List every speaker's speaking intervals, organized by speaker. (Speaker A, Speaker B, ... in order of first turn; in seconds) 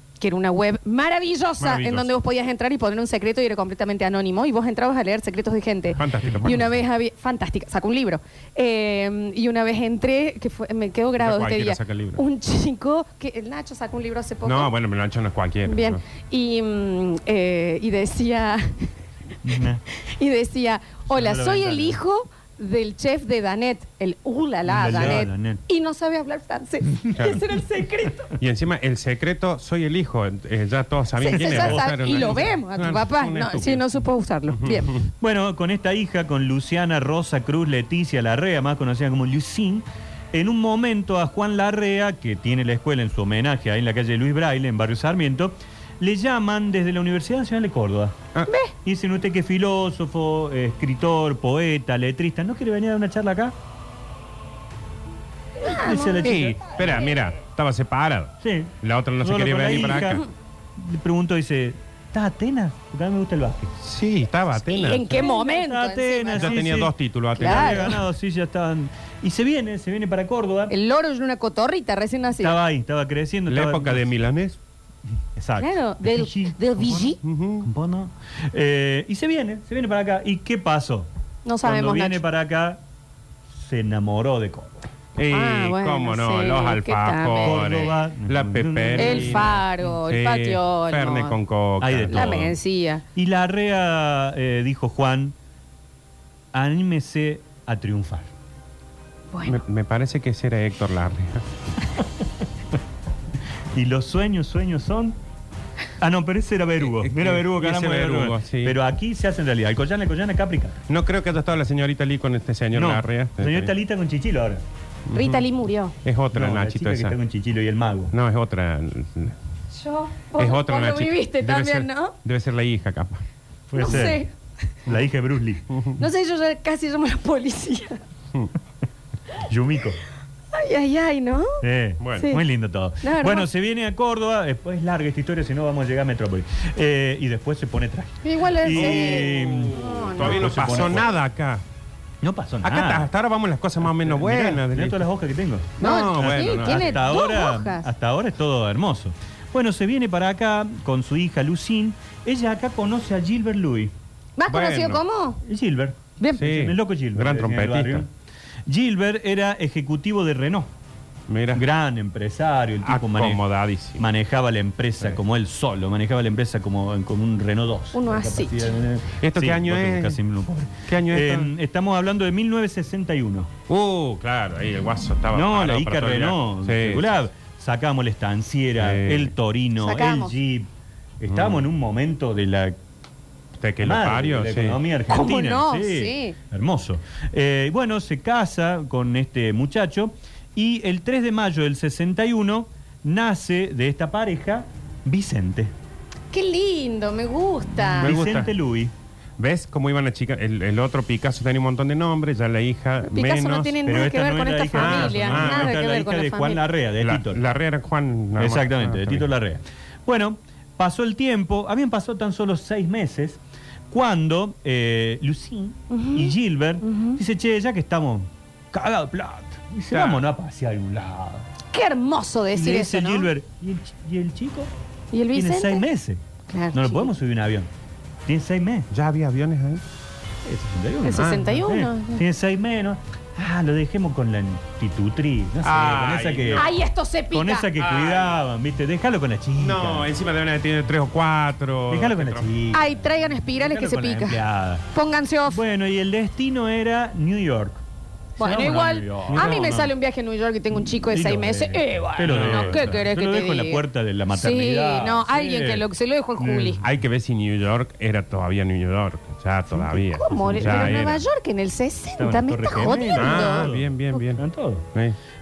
Speaker A: 0.2-14.7, 15.7-18.9, 19.9-28.3, 31.2-35.0, 48.5-48.7, 55.6-57.2, 64.6-66.7, 67.3-68.0, 70.7-72.5, 75.6-77.2, 81.5-82.2, 85.3-87.9, 89.0-91.4, 92.1-93.0, 99.3-99.6, 115.1-116.0, 119.7-122.2, 123.7-124.3, 126.0-128.0, 130.5-131.6, 132.2-132.4, 133.0-133.5, 138.2-140.9, 145.8-147.9, 154.4-155.4, 167.9-168.8, 179.8-180.3, 185.1-186.3, 196.3-198.2, 203.0-206.6, 215.9-217.2, 221.7-223.3, 225.1-225.8, 226.5-227.1, 231.0-232.2, 236.5-237.7, 242.7-245.6, 248.4-256.8, 260.1-264.2
Speaker B: 1.6-2.1, 5.9-6.7, 11.2-12.2, 14.4-16.0, 27.1-27.4, 28.4-34.0, 34.5-35.1, 56.2-60.2, 63.8-65.2, 66.4-68.0, 73.5-74.6, 77.2-77.7, 85.2-92.5, 99.5-101.5, 106.8-108.8, 110.9-113.7, 115.1-115.5, 116.0-117.2, 118.1-119.4, 120.4-123.2, 125.7-126.0, 132.0-132.3, 138.7-141.6, 142.6-145.1, 145.8-147.0, 154.5-155.0, 156.3-158.1, 161.3-161.6, 162.8-164.1, 169.2-170.2, 170.9-171.5, 173.7-177.2, 178.8-179.3, 181.3-181.7, 183.6-184.8, 198.0-198.5, 199.4-203.9, 204.7-205.8, 207.0-209.3, 219.9-220.3, 228.9-229.8, 231.2-231.6, 235.6-236.8, 237.8-238.4, 239.6-242.5, 249.3-249.6, 252.3-252.9, 256.8-261.2, 263.1-264.4
Speaker C: 19.4-19.8, 21.1-22.0, 24.7-25.6, 31.3-32.5, 35.2-48.2, 48.8-53.5, 55.7-56.8, 58.4-60.3, 60.8-63.8, 65.1-70.7, 72.4-74.1, 75.4-81.1, 81.6-82.8, 83.5-84.8, 87.4-89.7, 91.8-92.5, 93.2-95.3, 96.5-98.3, 103.7-105.2, 106.0-110.8, 112.7-114.6, 116.3-118.1, 123.7-124.2, 124.9-125.7, 129.4-130.0, 131.6-141.1, 142.2-143.1, 143.8-153.9, 155.4-158.1, 158.7-160.7, 161.5-163.4, 164.0-173.5, 175.3-180.7, 181.2-182.8, 183.8-195.7, 197.9-198.9, 203.8-207.4, 208.4-213.4, 213.9-221.5, 222.6-224.7, 225.3-226.2, 226.7-227.7, 228.3-228.9, 230.4-236.7, 237.3-240.1, 241.9-242.9, 243.5-244.9, 245.5-247.8, 248.4-249.9, 250.8-255.8, 256.4-256.9, 259.7-261.1, 262.2-264.9